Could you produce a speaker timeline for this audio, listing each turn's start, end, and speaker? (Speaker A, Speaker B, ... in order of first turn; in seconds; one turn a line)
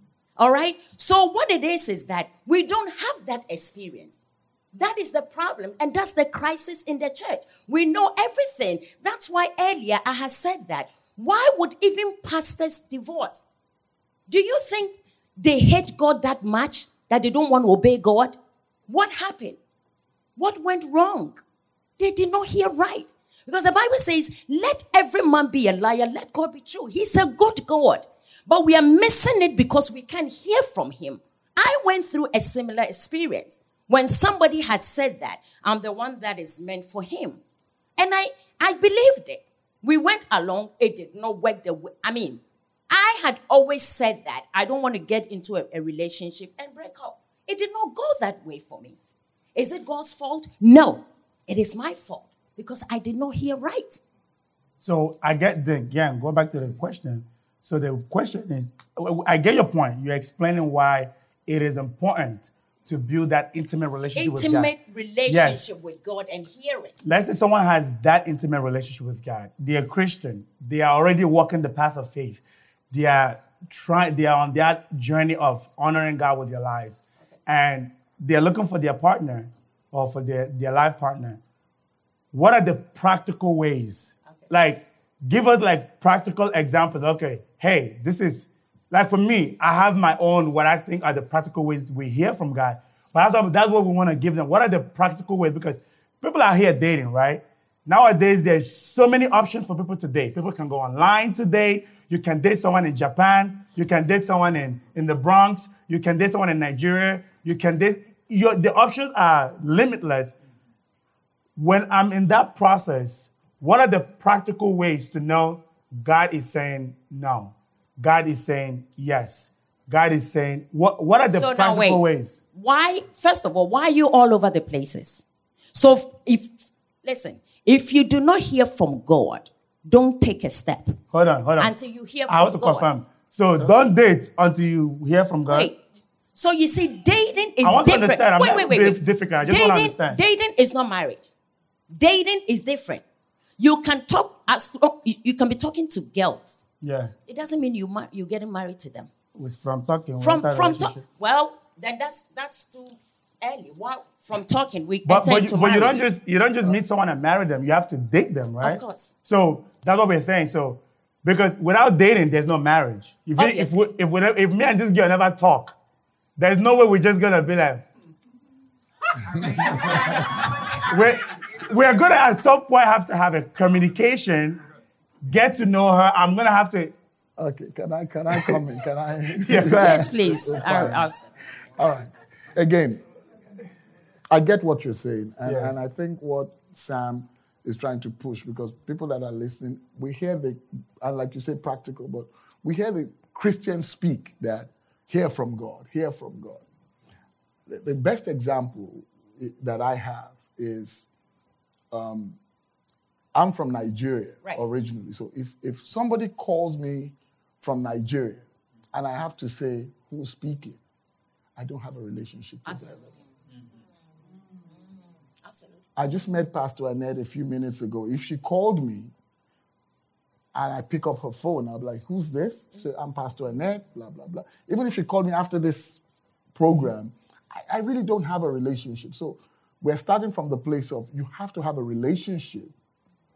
Speaker A: 0.4-13.4
Speaker A: 14.3-18.4
Speaker A: 18.9-19.6
Speaker A: 20.4-21.4
Speaker A: 22.0-37.4
Speaker A: 38.0-49.0
Speaker A: 49.5-54.0
Speaker B: 54.8-64.7
Speaker A: 64.2-67.0
Speaker B: 65.3-65.7
Speaker B: 67.0-81.4
Speaker B: 82.3-110.3
Speaker B: 111.6-122.4
Speaker A: 121.3-131.0
Speaker B: 131.1-131.7
Speaker A: 131.6-132.9
Speaker B: 132.3-135.7
Speaker A: 135.5-135.8
Speaker A: 136.3-141.3
Speaker B: 137.6-140.2
Speaker A: 141.9-143.0
Speaker A: 143.6-146.6
Speaker B: 146.8-147.1
Speaker A: 147.3-149.1
Speaker B: 149.3-151.0
Speaker A: 150.2-156.0
Speaker B: 155.0-165.8
Speaker A: 158.6-159.1
Speaker A: 163.4-163.9
Speaker B: 166.4-167.8
Speaker B: 169.3-174.6
Speaker C: 169.5-169.9
Speaker B: 175.2-176.9
Speaker C: 177.4-181.1
Speaker B: 178.3-178.6
Speaker B: 179.3-180.2
Speaker A: 179.7-181.3
Speaker C: 181.7-183.0
Speaker C: 184.3-196.6
Speaker B: 185.4-185.8
Speaker C: 197.7-201.1
Speaker C: 201.9-202.4
Speaker C: 203.3-210.8
Speaker C: 211.6-213.1
Speaker A: 212.7-213.0
Speaker A: 215.4-215.8
Speaker C: 216.0-219.1
Speaker C: 220.5-226.0
Speaker C: 226.5-232.7